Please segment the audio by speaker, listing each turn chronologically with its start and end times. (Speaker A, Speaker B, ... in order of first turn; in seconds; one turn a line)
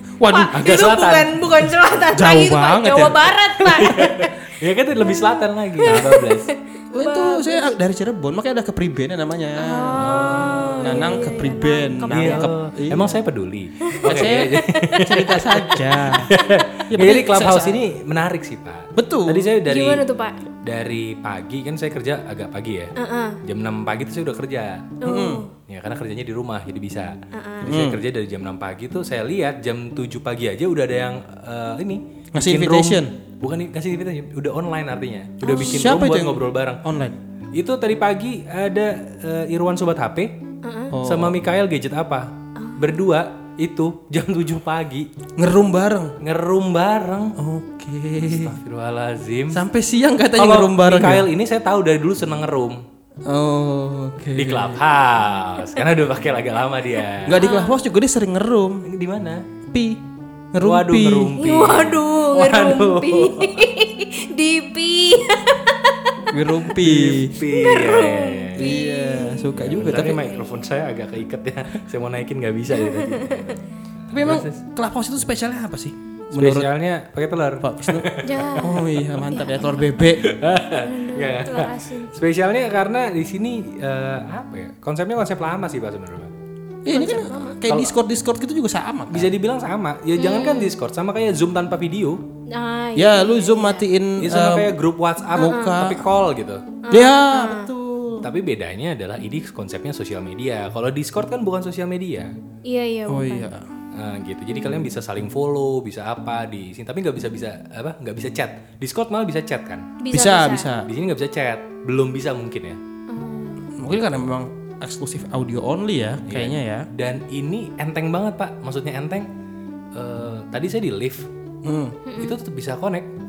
Speaker A: 0.2-0.8
Speaker B: 0.3-4.4
Speaker C: 0.5-1.6
Speaker A: 2.1-4.0
Speaker C: 3.7-6.5
Speaker B: 5.0-7.8
Speaker A: 6.9-13.2
Speaker B: 9.6-12.5
Speaker C: 10.0-11.2
Speaker C: 12.1-20.0
Speaker B: 13.8-15.0
Speaker A: 14.0-16.3
Speaker A: 16.9-17.8
Speaker A: 19.0-19.5
Speaker B: 19.7-20.4
Speaker C: 20.6-24.9
Speaker B: 23.0-23.4
Speaker B: 25.0-25.5
Speaker A: 25.0-25.4
Speaker C: 25.7-36.8
Speaker B: 27.3-27.8
Speaker A: 27.6-28.0
Speaker A: 32.3-33.1
Speaker B: 35.4-35.9
Speaker A: 35.5-37.2
Speaker C: 37.5-40.4
Speaker B: 40.6-41.0
Speaker A: 40.9-41.4
Speaker C: 41.0-45.1
Speaker B: 42.6-43.0
Speaker A: 45.4-46.1
Speaker C: 46.2-47.4
Speaker A: 47.4-48.6
Speaker C: 48.2-49.6
Speaker A: 49.5-51.3
Speaker C: 50.4-52.8
Speaker A: 53.3-54.8
Speaker C: 54.3-57.4
Speaker A: 57.2-58.9
Speaker B: 57.4-57.8
Speaker C: 58.9-59.5
Speaker A: 59.7-60.0
Speaker A: 60.5-61.5
Speaker C: 60.6-63.7
Speaker B: 61.4-66.4
Speaker A: 66.3-67.4
Speaker C: 66.8-68.8
Speaker B: 67.5-69.6
Speaker A: 68.6-70.4
Speaker C: 69.5-74.6
Speaker B: 72.7-73.6
Speaker A: 74.1-76.7
Speaker C: 76.3-79.2
Speaker A: 77.6-80.3
Speaker B: 78.2-82.1
Speaker C: 80.2-86.3
Speaker A: 86.8-89.3
Speaker B: 86.9-87.7
Speaker C: 87.7-87.9
Speaker C: 89.1-92.2
Speaker B: 90.2-90.8
Speaker B: 92.5-93.9
Speaker A: 93.0-94.8
Speaker C: 94.2-96.7
Speaker A: 95.3-96.1
Speaker B: 95.4-95.8
Speaker B: 96.8-97.7
Speaker A: 96.9-98.3
Speaker C: 98.2-102.3
Speaker B: 102.7-103.5
Speaker A: 103.1-103.7
Speaker C: 103.9-109.9
Speaker B: 110.0-110.7
Speaker A: 110.1-110.9
Speaker C: 110.8-112.8
Speaker B: 113.1-113.7
Speaker A: 113.8-116.9
Speaker C: 116.3-119.3
Speaker C: 119.9-121.3
Speaker A: 121.6-122.0
Speaker B: 122.1-122.4
Speaker C: 122.2-123.1